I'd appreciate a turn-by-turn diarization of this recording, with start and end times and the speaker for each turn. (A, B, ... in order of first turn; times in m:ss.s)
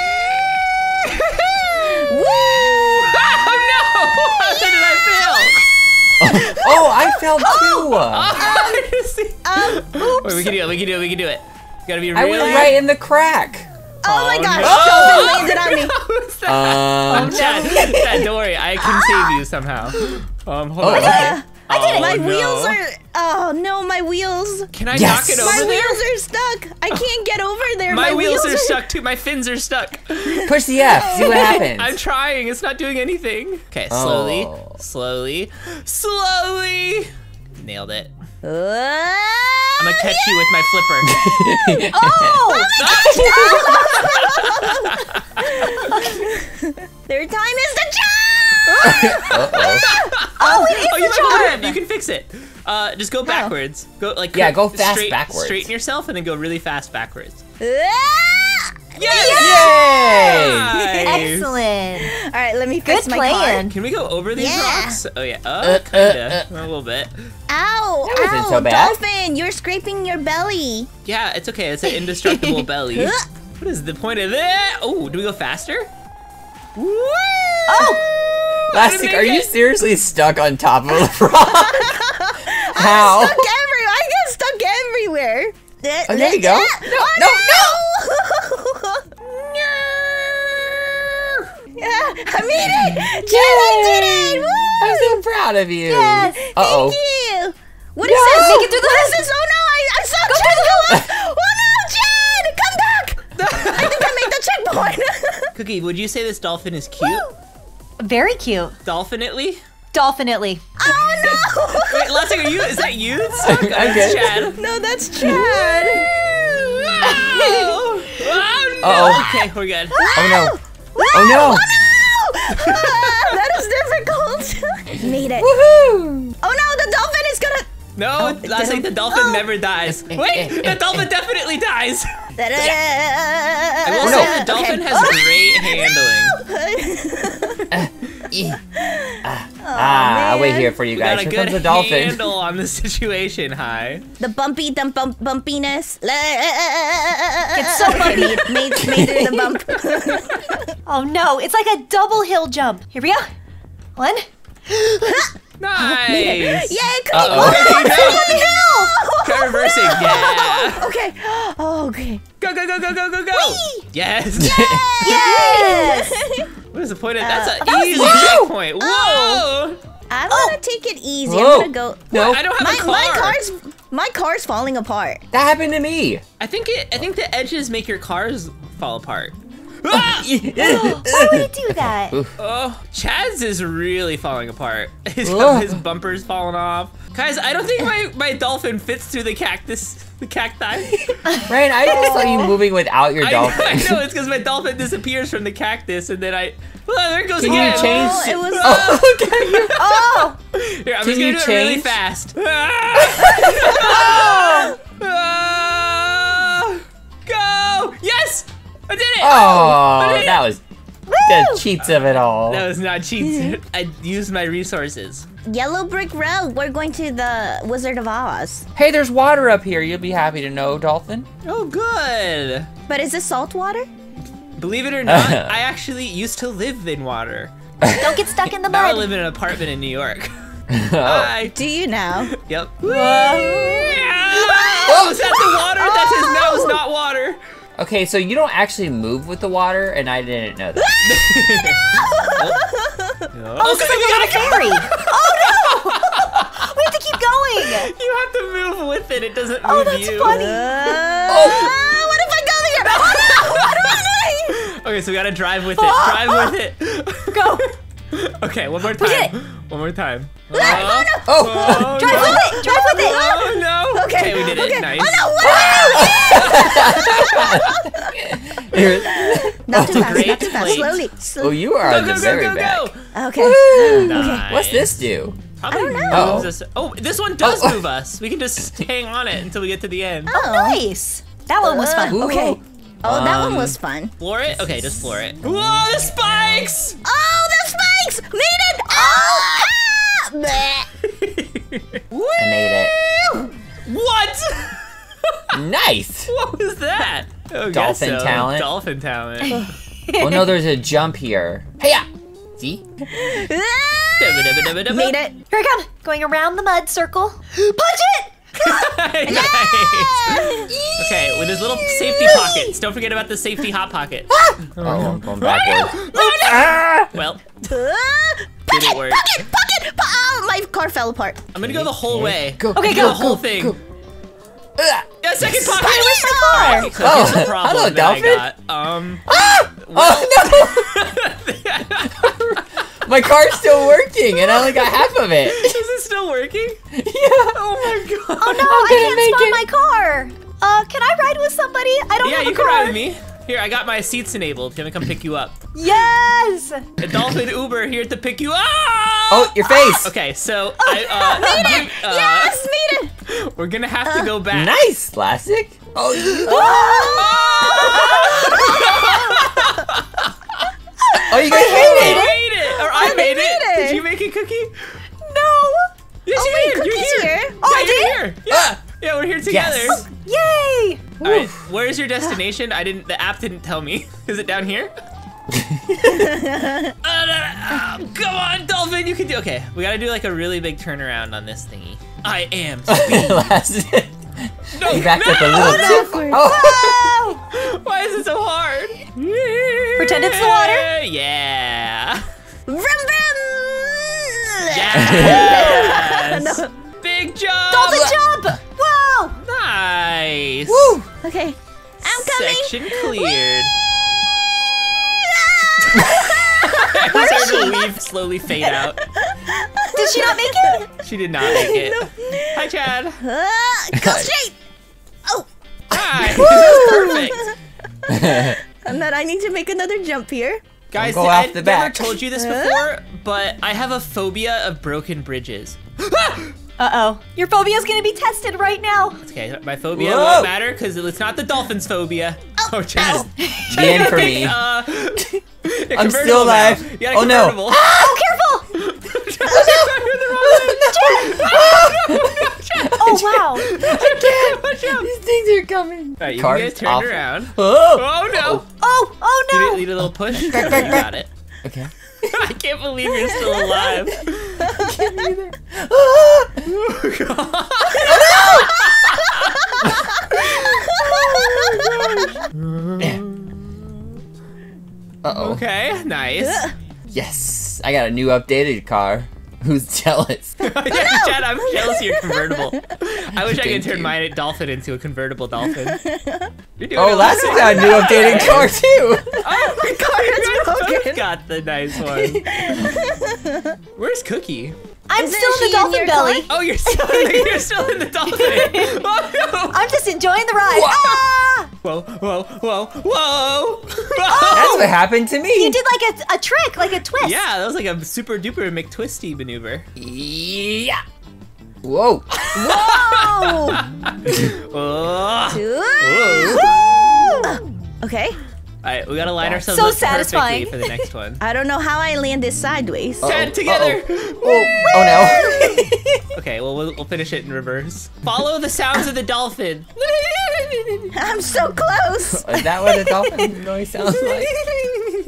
0:01.0-0:02.1 A
0:01.8-0:03.4 B
0:03.0-0:05.6 A
0:04.4-0:04.7 B
0:06.2-0:08.3 C
0:06.3-0:12.8 A
0:06.4-0:06.8 B
0:07.4-0:07.8 B
0:08.3-0:08.9 B
0:09.4-0:10.6 B
0:12.1-0:13.7 C
0:12.3-0:12.8 B
0:14.0-0:16.0 B
0:14.0-0:22.8 A
0:14.6-0:15.6 C
0:16.4-0:17.7 C
0:17.1-0:19.4 B
0:20.8-0:21.4 C
0:20.8-0:24.7 B
0:24.7-0:26.1 A
0:24.9-0:25.6 C
0:25.3-0:28.8 B
0:27.9-0:38.1 A
0:30.2-0:31.7 B
0:30.4-0:32.0 C
0:33.9-0:34.8 C
0:38.4-0:40.4 B
0:39.8-0:41.1 A
0:41.0-0:42.4 C
0:41.9-0:44.1 D
0:42.4-0:51.6 B
0:42.8-0:45.9 A
0:48.6-0:57.4 A
0:48.8-0:49.9 C
0:50.4-0:51.8 D
0:53.2-0:53.5 D
0:54.3-0:55.7 C
0:57.6-1:01.3 B
0:58.9-1:01.5 A
0:59.3-1:00.8 C
1:01.0-1:02.1 D
1:02.0-1:03.7 B
1:02.8-1:03.7 D
1:03.7-1:07.1 A
1:04.3-1:05.0 B
1:05.6-1:06.4 C
1:07.5-1:10.9 B
1:08.0-1:09.0 C
1:11.0-1:15.9 A
1:12.2-1:12.6 D
1:12.9-1:13.2 B
1:16.8-1:17.9 A
1:17.7-1:18.0 D
1:18.7-1:19.5 A
1:18.7-1:22.1 C
1:21.4-1:29.1 B
1:22.7-1:23.5 C
1:26.0-1:27.8 C
1:29.4-1:30.1 A
1:31.8-1:35.2 B
1:32.6-1:37.0 C
1:35.9-1:45.5 B
1:35.9-1:36.4 D
1:38.0-1:38.7 C
1:38.2-1:39.2 D
1:40.3-1:40.9 D
1:43.4-1:44.3 A
1:45.5-1:47.3 A
1:47.0-1:47.3 B
1:48.0-1:48.7 D
1:48.8-1:49.6 A
1:49.9-1:50.6 D
1:50.8-1:52.5 B
1:51.9-1:54.6 A
1:53.4-1:54.3 C
1:54.5-1:57.7 B
1:55.2-1:55.5 C
1:56.8-2:00.1 A
1:58.3-1:59.3 B
1:58.8-1:59.4 C
1:59.9-2:05.5 B
2:00.1-2:00.6 C
2:01.1-2:01.7 C
2:02.6-2:03.3 A
2:05.3-2:06.3 C
2:06.4-2:09.5 B
2:08.0-2:12.2 A
2:09.9-2:11.1 C
2:12.4-2:17.7 B
2:13.8-2:16.4 A
2:14.0-2:14.4 C
2:17.7-2:18.6 C
2:18.8-2:20.7 B
2:19.2-2:22.3 C
2:20.9-2:24.0 A
2:24.2-2:30.7 B
2:27.5-2:28.7 D
2:28.8-2:29.5 C
2:30.8-2:33.3 D
2:34.0-2:34.3 D
2:34.7-2:42.2 B
2:35.6-2:38.4 A
2:37.1-2:37.9 C
2:37.9-2:39.0 D
2:39.2-2:40.9 A
2:42.4-2:45.3 A
2:43.3-2:43.8 B
2:44.4-2:45.0 C
2:44.6-2:46.5 B
2:45.0-2:46.2 D
2:46.7-2:49.8 A
2:47.2-2:49.4 B
2:47.8-2:48.5 C
2:50.1-2:55.2 B
2:50.3-2:50.6 D
2:51.2-2:52.4 C
2:52.1-2:53.4 A
2:55.3-2:56.2 C
2:56.4-3:00.3 A
2:59.9-3:02.3 C
3:00.5-3:02.2 D
3:02.4-3:11.2 A
3:05.2-3:05.8 C
3:11.3-3:12.5 D
3:11.4-3:14.0 C
3:11.9-3:12.4 B
3:13.2-3:30.4 A
3:17.4-3:19.9 C
3:17.4-3:19.0 B
3:19.8-3:20.4 D
3:21.0-3:22.0 C
3:23.2-3:24.4 C
3:23.8-3:24.8 D
3:29.2-3:30.6 C
3:31.1-3:31.6 D
3:31.2-3:32.7 C
3:32.4-3:35.2 A
3:35.4-3:38.7 B
3:38.7-3:41.3 C
3:41.4-3:42.7 A
3:42.9-3:43.9 B
3:44.6-3:47.5 A
3:45.0-3:45.6 C
3:47.8-3:48.3 C
3:48.0-3:49.1 D
3:48.6-3:50.3 A
3:50.7-3:51.3 C
3:51.0-3:51.6 A
3:51.5-3:52.3 B
3:52.3-3:57.4 A
3:52.9-3:56.8 B
3:52.9-3:54.0 D
3:54.9-3:55.2 C
3:57.8-4:00.9 C
4:00.8-4:01.2 B
4:01.0-4:02.6 A
4:02.0-4:03.3 B
4:03.3-4:06.7 A
4:03.6-4:07.9 D
4:07.6-4:10.4 A
4:09.6-4:11.2 D
4:10.2-4:14.6 B
4:11.3-4:11.7 C
4:11.6-4:12.1 A
4:12.9-4:27.7 A
4:15.8-4:16.5 D
4:17.3-4:17.7 D
4:18.9-4:19.3 D
4:20.5-4:28.2 B
4:20.6-4:22.4 C
4:21.8-4:23.3 D
4:25.4-4:30.8 C
4:28.7-4:31.6 B
4:29.7-4:31.0 A
4:31.4-4:35.4 C
4:31.8-4:33.0 A
4:33.1-4:34.4 B
4:34.0-4:35.0 A
4:35.6-4:40.3 A
4:35.7-4:36.5 B
4:36.1-4:36.5 C
4:37.4-4:37.8 C
4:40.3-4:40.8 B
4:40.3-4:42.3 D
4:41.6-4:44.1 B
4:42.1-4:43.7 C
4:43.0-4:47.0 A
4:47.0-4:50.9 B
4:48.9-4:49.7 D
4:51.0-4:55.5 A
4:52.4-4:52.9 C
4:55.5-4:56.3 C
4:56.3-4:59.6 A
4:57.7-4:58.7 C
4:59.5-5:00.5 D
5:00.1-5:02.8 C
5:03.0-5:05.4 B
5:04.2-5:05.2 A
5:05.5-5:08.9 D
5:08.6-5:15.7 A
5:09.3-5:12.7 B
5:14.3-5:17.1 C
5:15.5-5:16.7 D
5:15.9-5:16.7 B
5:17.1-5:17.5 A
5:17.6-5:21.4 B
5:18.7-5:19.4 A
5:21.5-5:23.8 A
5:21.6-5:23.8 C
5:22.7-5:23.4 D
5:24.8-5:25.7 C
5:25.2-5:32.6 A
5:25.6-5:26.9 B
5:26.2-5:26.9 D
5:27.0-5:28.5 C
5:29.3-5:30.9 C
5:29.3-5:29.6 B
5:32.0-5:35.8 C
5:35.4-5:36.8 A
5:36.9-5:37.9 C
5:37.5-5:39.0 A
5:38.4-5:43.0 D
5:38.6-5:39.6 C
5:42.2-5:45.6 A
5:45.7-5:46.9 D
5:47.0-5:52.6 A
5:49.3-5:50.1 C
5:50.9-5:53.1 B
5:51.1-5:51.8 D
5:53.2-5:54.8 A
5:54.5-5:57.1 C
5:56.3-6:00.3 A
5:56.4-5:59.8 B
5:56.7-5:57.2 D
5:58.0-5:58.5 D
6:01.1-6:02.3 C
6:01.3-6:04.0 B
6:01.3-6:02.4 D
6:01.6-6:05.0 A
6:05.2-6:05.9 D
6:06.2-6:10.0 A
6:06.3-6:07.7 B
6:07.6-6:08.2 D
6:08.5-6:08.8 C
6:09.4-6:10.0 C
6:10.2-6:11.1 D
6:11.2-6:14.9 A
6:15.5-6:16.4 C
6:16.0-6:16.9 B
6:17.0-6:23.5 A
6:22.9-6:27.0 C
6:24.7-6:32.2 A
6:25.3-6:27.0 B
6:30.0-6:30.9 D
6:32.7-6:36.7 B
6:34.7-6:38.2 A
6:35.0-6:35.5 C
6:37.7-6:39.4 D
6:37.9-6:38.2 C
6:39.4-6:41.0 A
6:40.7-6:41.1 C
6:41.2-6:43.4 B
6:42.0-6:43.7 A
6:44.4-6:48.0 B
6:45.8-6:49.0 A
6:47.1-6:47.7 D
6:48.5-6:50.8 B
6:49.9-6:50.9 D
6:51.0-6:53.2 A
6:51.4-6:52.7 B
6:53.2-6:54.6 B
6:53.9-6:54.3 C
6:55.9-6:57.5 A
6:56.4-6:57.3 B
6:58.1-6:58.6 C
6:58.2-7:00.6 B
7:00.9-7:06.5 A
7:01.0-7:02.2 C
7:02.2-7:02.9 B
7:06.8-7:09.2 D
7:09.2-7:17.8 A
7:09.9-7:10.5 C
7:13.0-7:13.2 B
7:13.0-7:14.4 D
7:13.7-7:14.6 C
7:15.9-7:18.2 C
7:17.8-7:18.7 D
7:18.7-7:25.1 A
7:19.5-7:28.6 C
7:20.8-7:21.6 D
7:23.0-7:23.7 D
7:26.2-7:28.6 A
7:28.8-7:29.9 D
7:29.5-7:31.3 A
7:30.3-7:32.5 C
7:32.2-7:35.5 A
7:33.3-7:34.0 B
7:34.7-7:35.3 B
7:35.6-7:36.6 C
7:36.6-7:39.7 A
7:37.9-7:38.8 B
7:38.0-7:38.7 C
7:39.7-7:42.1 B
7:39.8-7:40.1 C
7:40.3-7:43.7 A
7:45.2-7:45.6 C
7:45.3-7:46.7 A
7:47.1-7:50.6 C
7:50.6-7:56.0 A
7:50.9-7:52.7 B
7:53.4-7:54.2 C
7:56.0-7:56.5 B
7:56.8-7:58.8 A
7:56.9-7:59.4 C
7:57.2-7:58.7 B
7:59.4-8:01.2 B
7:59.4-8:02.5 A
8:02.2-8:03.8 B
8:04.0-8:04.8 A
8:05.1-8:07.6 D
8:05.2-8:06.5 B
8:06.5-8:09.9 A
8:08.3-8:09.0 D
8:09.7-8:11.6 D
8:10.7-8:11.2 C
8:10.8-8:11.6 B
8:11.8-8:14.9 A
8:14.2-8:17.4 D
8:14.5-8:15.8 C
8:17.2-8:19.9 A
8:20.0-8:21.0 C
8:21.8-8:22.3 C
8:22.4-8:27.5 A
8:22.5-8:23.8 B
8:25.5-8:26.8 B
8:27.4-8:28.4 B
8:28.8-8:31.4 A
8:29.7-8:31.0 D
8:31.4-8:33.3 B
8:33.2-8:35.7 A
8:33.2-8:35.8 C
8:35.0-8:35.8 D
8:35.3-8:36.0 B
8:36.3-8:39.9 A
8:40.1-8:41.1 D
8:41.1-8:43.1 B
8:42.2-8:44.5 C
8:43.1-8:43.5 D